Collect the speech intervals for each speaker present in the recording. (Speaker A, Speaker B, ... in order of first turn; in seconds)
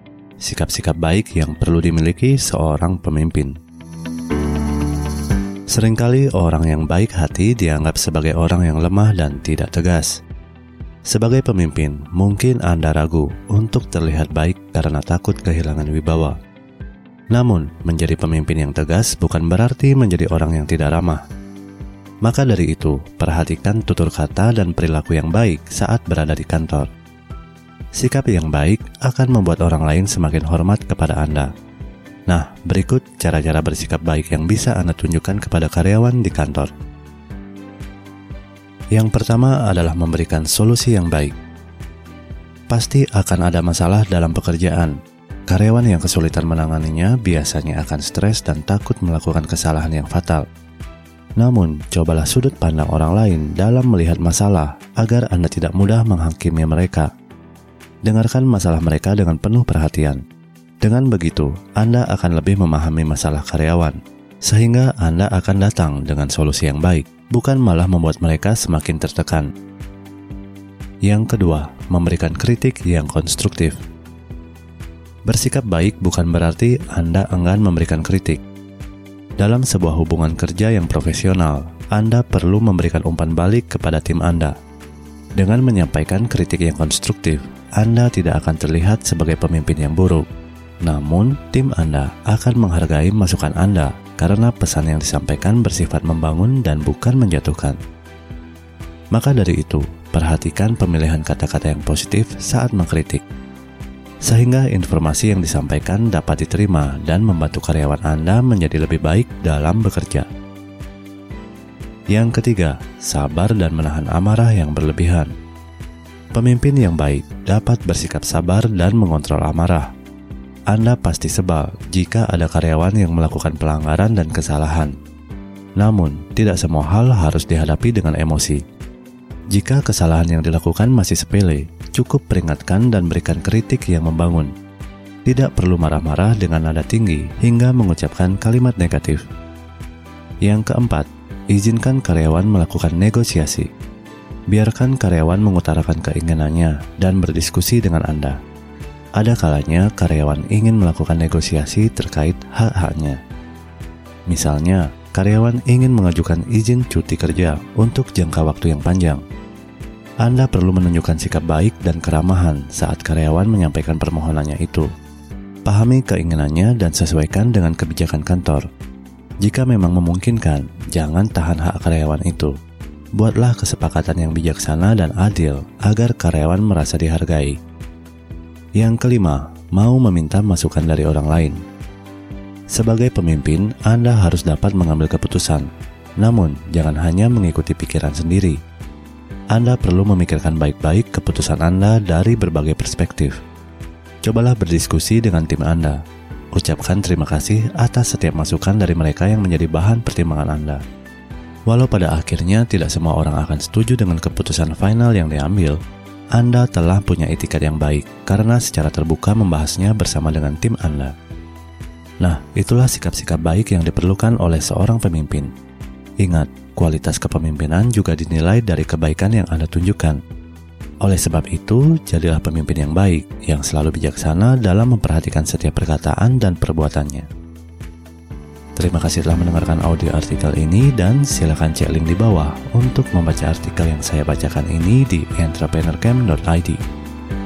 Speaker A: 0.4-3.6, 5.7-10.2, 11.1-16.4, 17.3-21.2, 22.2-26.9, 27.9-31.5, 32.3-36.7, 38.9-41.4, 42.7-50.5, 51.4-57.1, 58.0-60.2, 60.8-69.5, 71.0-73.8, 75.2-78.4, 79.4-84.5, 85.4-90.3, 90.8-97.8, 99.1-103.2, 104.2-110.3, 112.1-115.3, 116.3-119.9, 120.7-125.0, 125.8-128.6, 129.5-134.5, 135.2-139.3, 140.4-143.7, 144.5-148.4, 149.2-153.2, 154.3-159.2, 160.2-164.9, 165.6-168.7, 169.4-172.6, 173.2-177.6, 178.8-181.6, 182.7-185.7, 186.2-188.6, 189.5-193.4, 194.2-200.8, 201.7-205.8, 206.3-211.1, 212.2-215.5, 216.2-220.2, 221.0-227.3, 228.7-236.8